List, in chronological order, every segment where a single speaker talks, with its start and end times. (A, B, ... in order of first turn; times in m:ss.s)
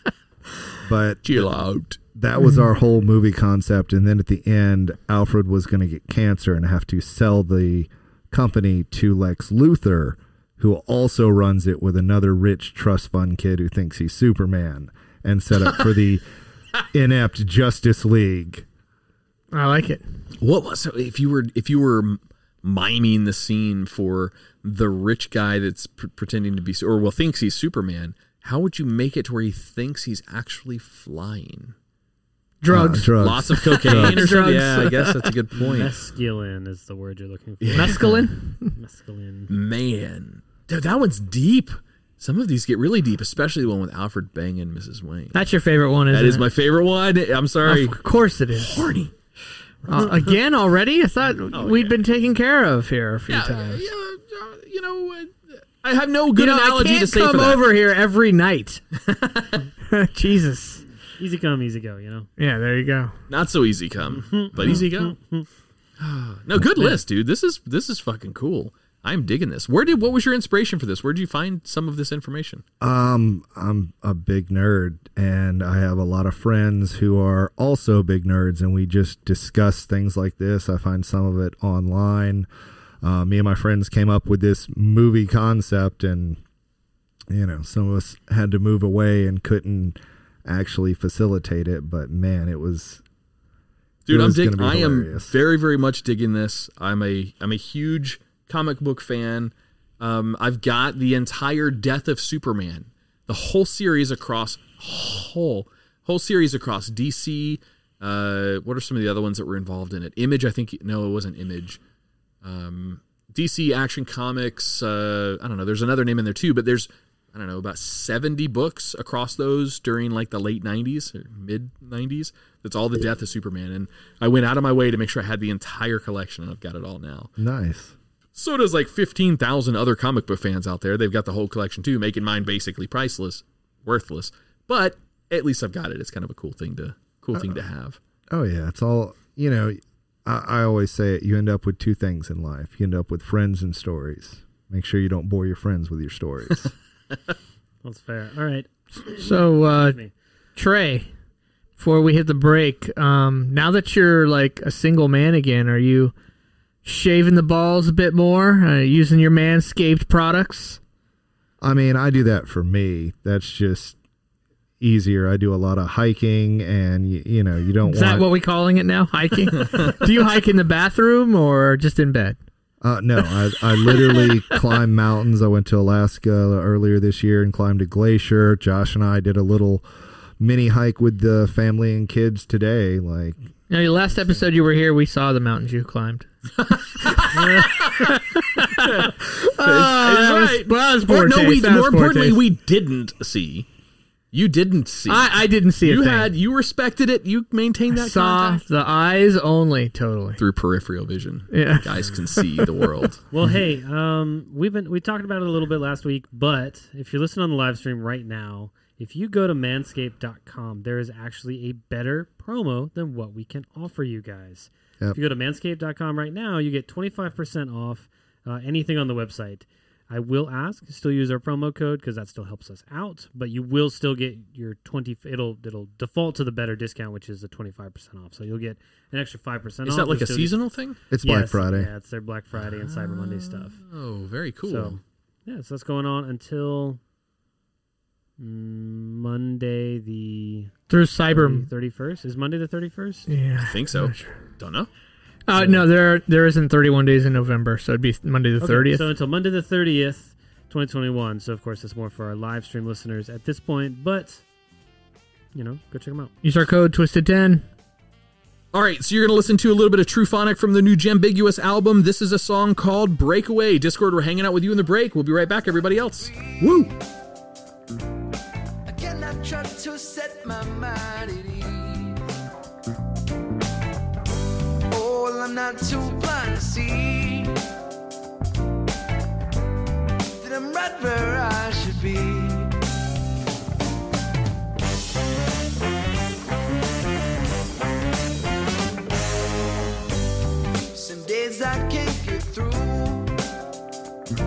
0:00.8-0:01.5 A
0:01.2-0:02.0 B
0:02.2-0:16.2 A
0:16.9-0:18.6 A
0:19.5-0:20.0 C
0:20.4-0:31.8 B
0:32.6-0:35.3 C
0:32.7-0:34.3 A
0:33.2-0:36.0 B
0:35.6-0:39.5 D
0:37.6-0:38.3 B
0:37.8-0:38.7 C
0:39.5-0:45.4 B
0:45.3-0:46.5 C
0:46.1-0:49.1 B
0:47.6-0:48.9 C
0:49.9-0:53.9 C
0:51.5-0:52.0 B
0:53.3-0:57.7 B
0:56.4-0:58.8 C
0:59.1-0:59.6 B
0:59.9-1:00.8 C
1:01.2-1:02.3 D
1:02.4-1:03.1 C
1:03.3-1:05.2 B
1:04.1-1:05.5 D
1:06.0-1:12.6 B
1:12.8-1:22.5 A
1:23.0-1:26.4 A
1:27.3-1:33.0 A
1:34.1-1:51.8 B
1:34.1-1:35.4 A
1:52.4-2:07.3 B
2:07.4-2:07.9 A
2:08.4-2:18.0 B
2:18.3-2:26.7 A
2:27.8-2:30.1 D
2:29.2-2:30.0 C
2:30.6-2:31.1 C
2:31.8-2:36.1 C
2:36.8-2:40.8 C
2:41.6-2:44.0 A
2:44.8-2:48.3 A
2:47.8-2:52.4 C
2:52.8-2:59.8 A
2:54.0-2:54.3 C
3:00.4-3:03.4 A
3:03.7-3:06.3 C
3:06.6-3:08.0 B
3:07.1-3:12.4 C
3:08.8-3:13.7 B
3:14.3-3:18.6 B
3:15.1-3:16.3 C
3:17.9-3:20.4 C
3:20.4-3:23.2 B
3:21.5-3:22.9 C
3:23.3-3:50.6 D
3:49.9-3:51.0 B
3:51.1-3:51.9 A
3:51.2-3:53.8 D
3:52.6-3:55.0 B
3:54.7-3:57.0 D
3:58.4-4:00.8 D
4:00.9-4:01.7 C
4:01.3-4:03.3 D
4:03.3-4:04.3 C
4:03.6-4:04.9 B
4:05.5-4:09.1 C
4:08.6-4:14.4 D
4:15.5-4:16.3 D
4:16.4-4:17.6 C
4:18.7-4:26.9 B
4:28.9-4:32.2 E
4:34.9-4:37.6 E
4:40.4-4:42.7 E
4:50.9-4:53.4 E